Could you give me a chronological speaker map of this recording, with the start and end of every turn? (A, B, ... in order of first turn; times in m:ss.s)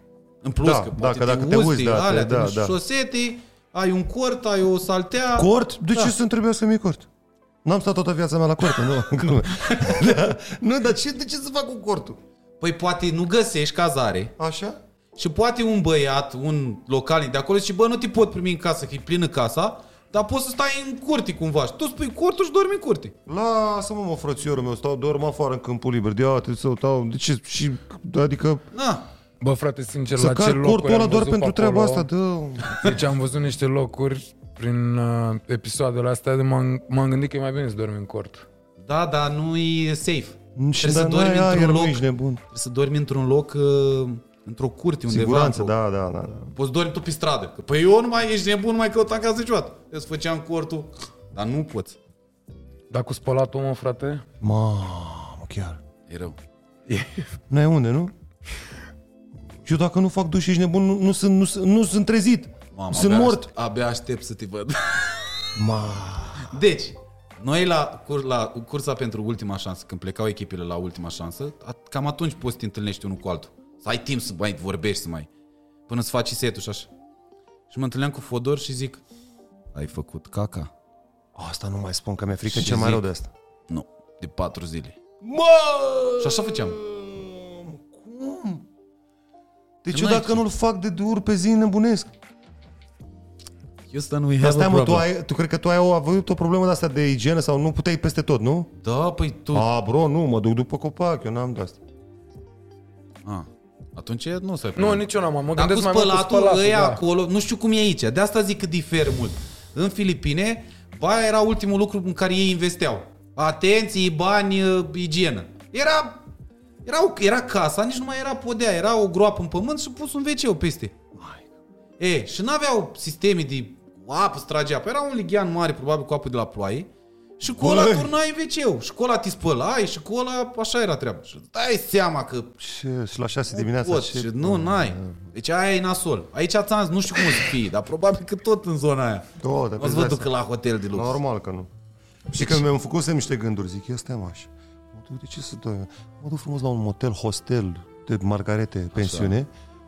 0:00.4-0:06.1 A
0:00.6-0:02.8 B
0:05.4-0:07.1 B
0:07.6-0:12.2 B
0:09.5-0:10.0 A
0:12.6-0:14.3 A
0:14.4-0:14.8 B
0:15.2-0:23.1 A
0:23.3-0:28.6 B
0:28.7-0:29.0 A
0:29.4-0:32.1 C
0:30.2-0:33.0 B
0:32.7-0:38.4 C
0:38.8-0:45.7 A
0:40.6-0:42.4 B
0:45.1-0:46.5 B
0:46.5-0:52.0 A
0:52.9-0:54.2 C
0:54.4-0:55.8 B
0:56.1-0:56.4 A
0:56.9-0:57.3 C
0:57.5-0:58.1 B
0:59.6-1:03.5 B
1:02.7-1:05.5 A
1:05.6-1:06.6 B
1:06.4-1:15.3 A
1:15.9-1:16.9 A
1:17.7-1:19.0 A
1:19.7-1:20.7 A
1:21.3-1:23.3 B
1:22.5-1:23.0 A
1:23.7-1:25.0 A
1:25.2-1:28.6 B
1:26.2-1:26.8 A
1:29.8-1:32.1 B
1:29.9-1:30.4 A
1:33.9-1:35.0 A
1:34.4-1:38.7 B
1:38.8-1:39.7 A
1:39.5-1:41.8 B
1:43.2-1:56.2 A
1:44.8-1:47.0 C
1:56.8-2:00.9 A
2:01.1-2:01.4 B
2:02.0-2:12.5 A
2:07.4-2:08.1 B
2:12.6-2:15.3 B
2:13.5-2:21.2 A
2:19.4-2:20.3 B
2:20.9-2:21.7 B
2:22.3-2:22.6 A
2:22.3-2:29.5 B
2:28.9-2:29.3 A